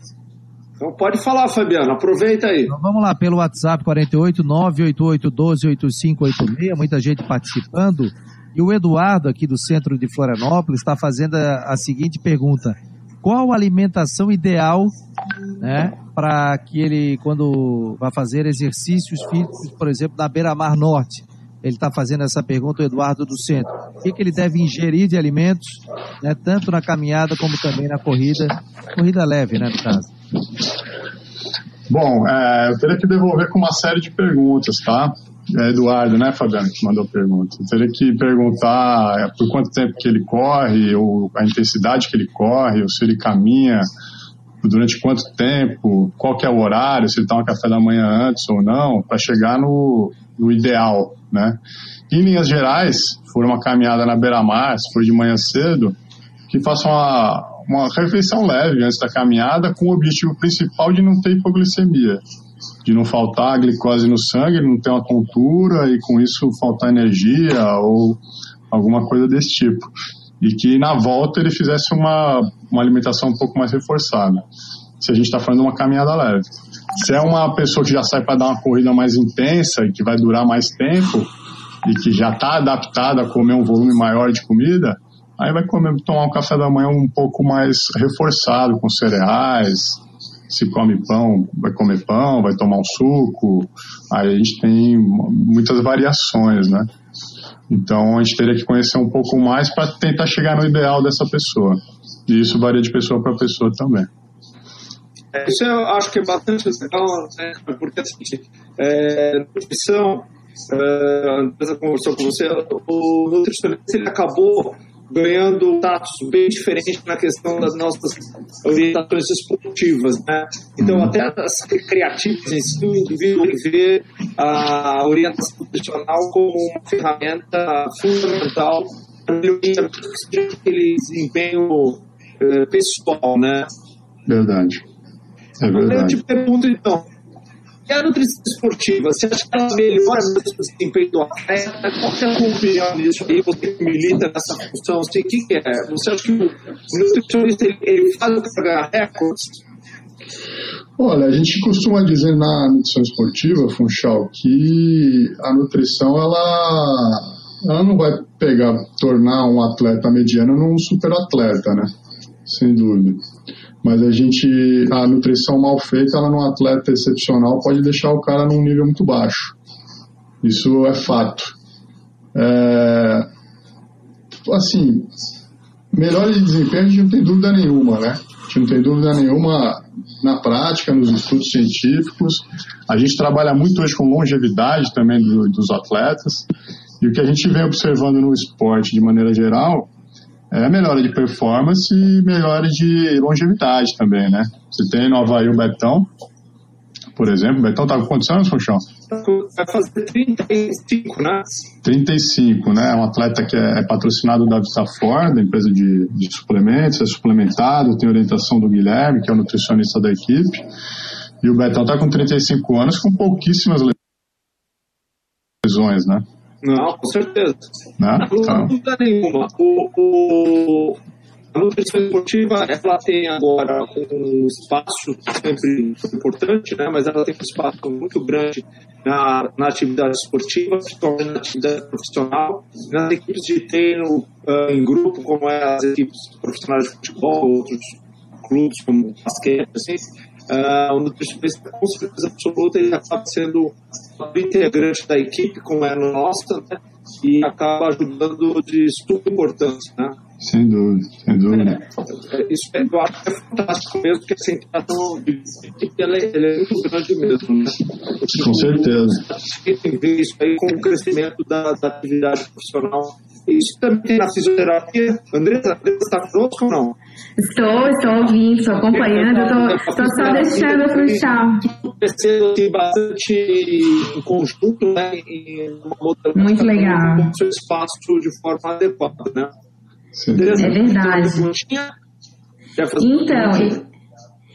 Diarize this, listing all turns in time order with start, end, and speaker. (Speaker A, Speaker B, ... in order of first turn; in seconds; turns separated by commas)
Speaker A: 0.8-2.7, Speaker B: 2.7-14.9, Speaker B: 15.6-30.1, Speaker C: 31.9-43.9, Speaker C: 44.6-51.6, Speaker C: 52.1-56.0, Speaker C: 56.5-62.2, Speaker C: 62.8-74.4, Speaker C: 75.0-81.3, Speaker C: 81.8-96.9, Speaker C: 97.7-104.1, Speaker A: 105.3-133.7, Speaker C: 120.8-121.1, Speaker C: 134.3-134.8, Speaker C: 135.6-136.2, Speaker A: 135.7-137.1, Speaker A: 137.9-149.6, Speaker C: 151.0-161.9, Speaker C: 162.4-163.2, Speaker C: 163.8-169.5, Speaker C: 170.4-171.5, Speaker C: 172.3-173.3, Speaker C: 174.5-175.1, Speaker C: 175.9-186.5, Speaker C: 187.0-189.9, Speaker C: 190.5-196.1, Speaker C: 197.2-198.8, Speaker A: 199.1-201.5, Speaker C: 201.8-210.6, Speaker C: 211.4-214.0, Speaker C: 215.6-216.2, Speaker A: 216.6-217.6, Speaker C: 218.0-218.7, Speaker A: 218.2-221.0, Speaker A: 221.5-250.2, Speaker C: 250.4-251.8, Speaker A: 251.5-267.0, Speaker C: 258.2-259.2, Speaker D: 267.4-271.6, Speaker A: 268.9-279.5, Speaker D: 276.4-277.3, Speaker C: 280.1-280.7, Speaker A: 280.3-281.9, Speaker D: 280.6-281.4, Speaker A: 282.8-283.8, Speaker D: 283.0-283.8